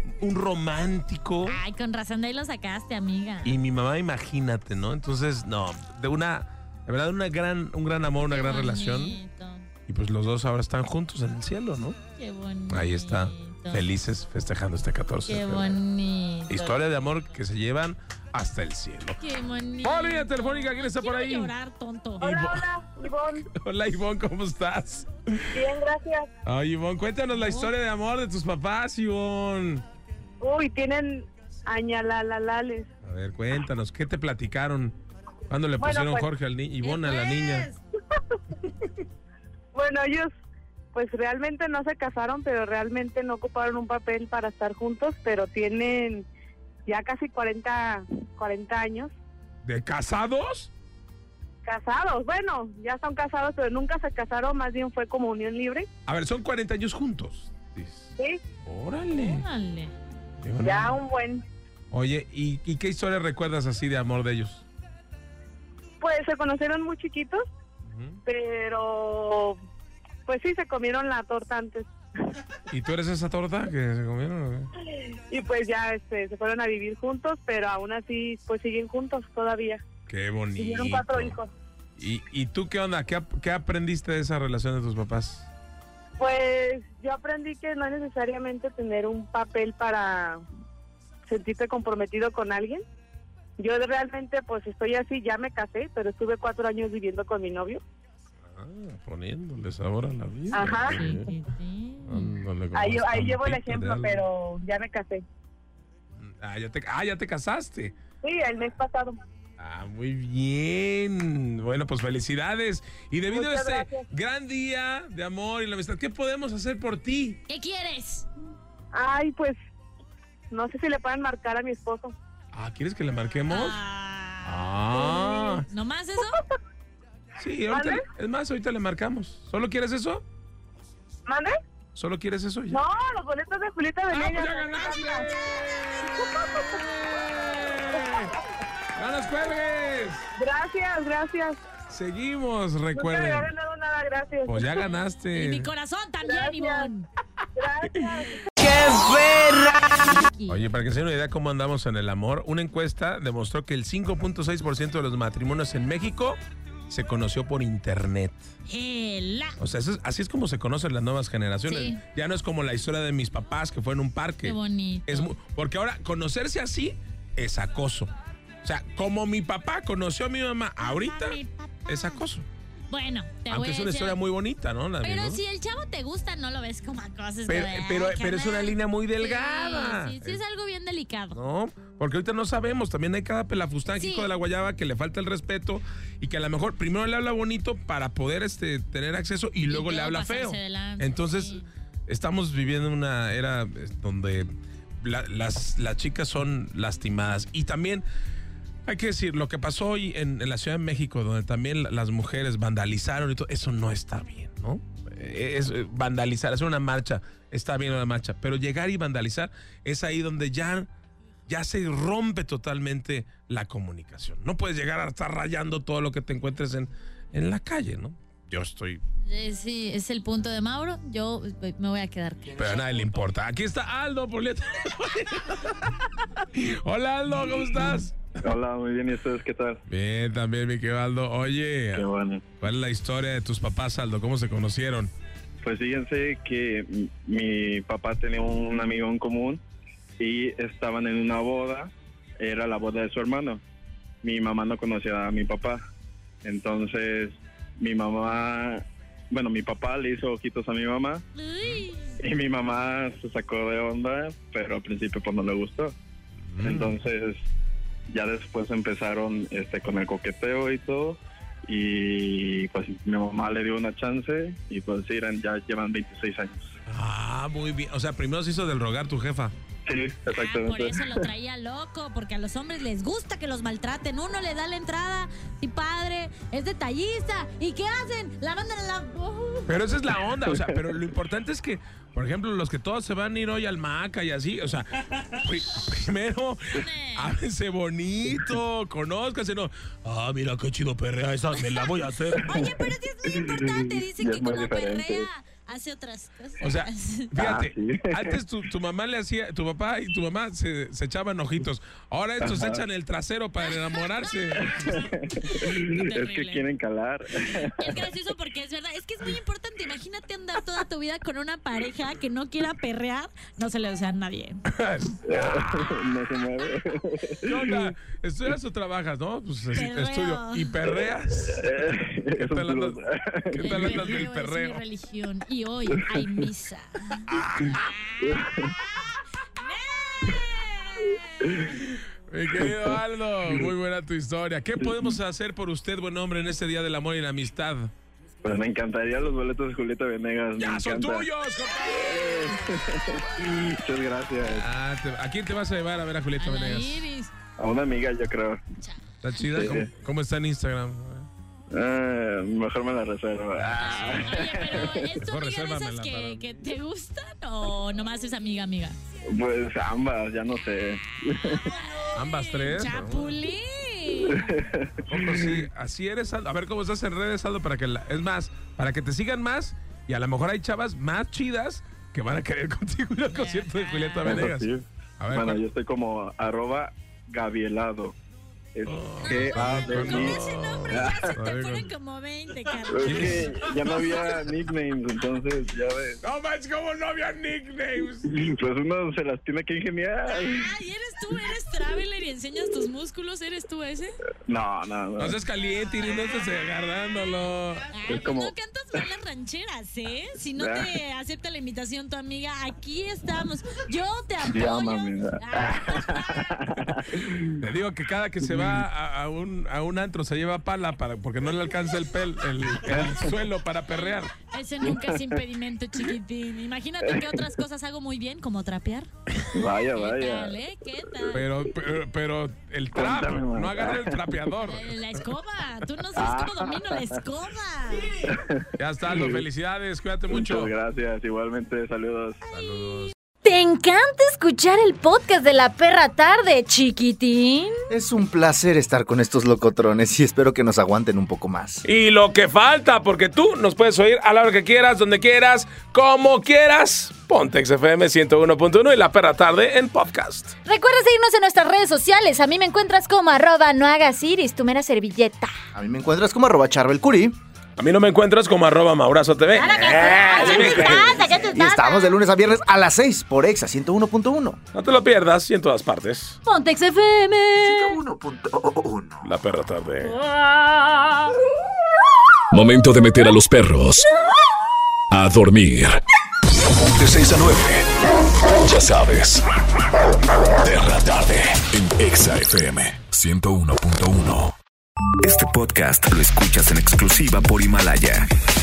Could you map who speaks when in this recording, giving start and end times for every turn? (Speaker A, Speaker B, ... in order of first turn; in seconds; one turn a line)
Speaker A: 0.2-1.6
Speaker B: 1.5-3.6
Speaker A: 3.5-9.2
Speaker B: 8.3-9.7
Speaker A: 9.9-12.0
Speaker B: 12.2-13.8
Speaker A: 12.7-15.8
Speaker B: 15.3-16.8
Speaker A: 16.5-19.2
Speaker B: 19.2-22.5
Speaker A: 19.8-21.5
Speaker C: 22.2-23.5
Speaker A: 22.4-22.7
Speaker A: 23.4-25.6
Speaker C: 25.5-26.3
Speaker A: 26.4-29.8
Speaker B: 27.3-27.7
Speaker C: 30.4-32.9
Speaker A: 33.0-35.0
Speaker A: 35.5-37.7
Speaker C: 35.8-36.3
Speaker B: 36.8-37.8
Speaker C: 39.7-40.3
Speaker C: 40.9-46.3
Speaker C: 46.9-49.1
Speaker A: 49.6-50.7
Speaker C: 51.6-55.9
Speaker A: 56.1-58.1
Speaker C: 58.2-58.4
Speaker A: 58.6-59.5
Speaker B: 59.2-59.9
Speaker A: 60.4-61.0
Speaker C: 60.6-61.4
Speaker A: 61.9-64.7
Speaker C: 66.0-67.5
Speaker A: 67.9-68.2
Speaker C: 68.2-69.6
Speaker C: 70.3-71.9
Speaker A: 72.7-74.7
Speaker C: 75.3-79.8
Speaker A: 80.1-81.4
Speaker C: 80.5-81.5
Speaker A: 82.0-85.5
Speaker C: 86.2-90.4
Speaker C: 91.3-92.8
Speaker C: 93.6-97.8
Speaker A: 98.5-101.3
Speaker C: 100.5-101.1
Speaker B: 100.8-102.3
Speaker A: 102.1-104.2
Speaker C: 102.7-105.2
Speaker A: 106.2-108.0
Speaker C: 108.2-109.2
Speaker A: 109.6-117.4
Speaker C: 113.3-114.1
Speaker B: 117.5-118.3
Speaker C: 118.9-119.6
Speaker C: 120.5-122.2
Speaker A: 122.5-123.8
Speaker B: 123.5-126.4
Speaker A: 124.5-125.7
Speaker A: 127.4-130.2
Speaker C: 127.7-128.0
Speaker C: 131.3-131.6
Speaker A: 131.9-132.8
Speaker C: 132.7-135.3
Speaker A: 134.1-138.4
Speaker C: 136.0-136.8
Speaker A: 138.9-140.3
Speaker C: 140.4-141.6
Speaker A: 141.9-143.5
Speaker C: 142.9-144.8
Speaker A: 144.4-145.7
Speaker B: 145.3-147.1
Speaker C: 146.2-146.9
Speaker C: 147.6-148.4
Speaker B: 148.6-150.6
Speaker A: 150.5-158.5
Speaker B: 158.7-159.6
Speaker A: 159.6-168.1
Speaker B: 161.7-162.0
Speaker B: 164.4-165.3
Speaker A: 168.6-172.5
Speaker B: 170.8-172.2
Speaker B: 172.9-174.2
Speaker A: 173.5-175.4
Speaker B: 175.0-181.4
Speaker A: 177.5-180.4
Speaker A: 181.3-198.0
Speaker B: 184.0-184.3
Speaker B: 189.7-191.7
Speaker A: 198.9-210.9
Speaker A: 211.5-219.0
Speaker B: 219.2-222.9
Speaker A: 222.6-228.4
Speaker D: 228.4-229.8
Speaker A: 229.9-232.1
Speaker D: 231.9-232.4
Speaker A: 232.6-235.1
Speaker D: 235.6-239.6
Speaker D: 240.2-243.6
Speaker D: 244.2-245.8
Speaker D: 246.4-251.2
Speaker B: 251.3-252.2
Speaker D: 252.2-255.9
Speaker A: 256.5-257.0
Speaker D: 256.6-257.5
Speaker D: 258.1-266.7
Speaker A: 266.9-269.5
Speaker D: 269.9-271.2
Speaker B: 270.3-279.8
Speaker A: 279.7-292.6
Speaker D: 280.5-280.9
Speaker B: 286.7-287.3
Speaker B: 291.6-297.4
Speaker D: 292.3-295.3
Speaker A: 296.6-304.7
Speaker D: 297.4-298.4
Speaker D: 302.4-302.8
Speaker B: 303.7-306.6
Speaker D: 304.6-308.1
Speaker B: 307.6-314.6
Speaker A: 314.7-316.0
Speaker D: 315.3-317.9
Speaker A: 317.5-323.0
Speaker B: 319.7-320.8
Speaker D: 320.9-324.2
Speaker A: 323.5-324.8
Speaker B: 323.6-327.3
Speaker D: 325.9-326.5
Speaker A: 327.3-328.0
Speaker D: 327.7-328.8
Speaker B: 329.6-331.6
Speaker D: 331.4-331.8
Speaker A: 331.7-337.9
Speaker D: 332.5-333.0
Speaker D: 334.8-335.1
Speaker D: 338.4-341.3
Speaker A: 340.6-342.6
Speaker D: 341.9-344.7
Speaker A: 344.5-347.1
Speaker B: 346.4-347.3
Speaker D: 347.6-348.6
Speaker A: 349.2-351.3
Speaker D: 349.4-349.9
Speaker D: 351.7-355.1
Speaker A: 353.6-356.4
Speaker B: 353.8-359.0
Speaker D: 359.3-361.8
Speaker B: 361.4-364.6
Speaker A: 362.1-363.4
Speaker D: 364.3-365.6
Speaker A: 365.1-374.7
Speaker B: 373.3-374.4
Speaker D: 374.3-378.1
Speaker A: 375.2-375.6
Speaker D: 378.7-381.3
Speaker A: 378.9-381.9
Speaker B: 379.2-383.5
Speaker D: 382.9-386.2
Speaker A: 383.0-383.9
Speaker A: 386.2-388.3
Speaker D: 388.2-390.7
Speaker B: 390.3-394.2
Speaker D: 394.5-395.4
Speaker A: 395.2-397.9
Speaker B: 397.9-406.6
Speaker D: 398.1-398.5
Speaker D: 400.5-401.0
Speaker D: 404.4-407.6
Speaker A: 407.6-414.3
Speaker D: 408.4-408.8
Speaker D: 412.9-413.4
Speaker B: 413.9-419.1
Speaker D: 414.8-415.4
Speaker D: 417.1-417.5
Speaker D: 419.5-420.6
Speaker B: 419.8-421.5
Speaker A: 421.3-425.0
Speaker D: 422.9-424.5
Speaker B: 424.6-428.3
Speaker D: 426.1-427.2
Speaker D: 428.2-429.4
Speaker A: 428.8-430.7
Speaker D: 430.3-432.5
Speaker A: 432.5-433.1
Speaker B: 433.4-437.9
Speaker E: 437.9-441.8
Speaker A: 441.9-450.5
Speaker B: 450.6-455.5
Speaker E: 455.7-457.4
Speaker A: 457.8-461.3
Speaker B: 459.6-462.2
Speaker E: 460.3-464.6
Speaker A: 464.7-466.4
Speaker B: 466.5-468.0
Speaker E: 467.7-469.3
Speaker A: 469.2-470.2
Speaker B: 470.0-471.3
Speaker F: 472.5-474.1
Speaker F: 475.1-476.0
Speaker F: 476.9-479.4
Speaker F: 480.6-484.5
Speaker G: 485.2-488.3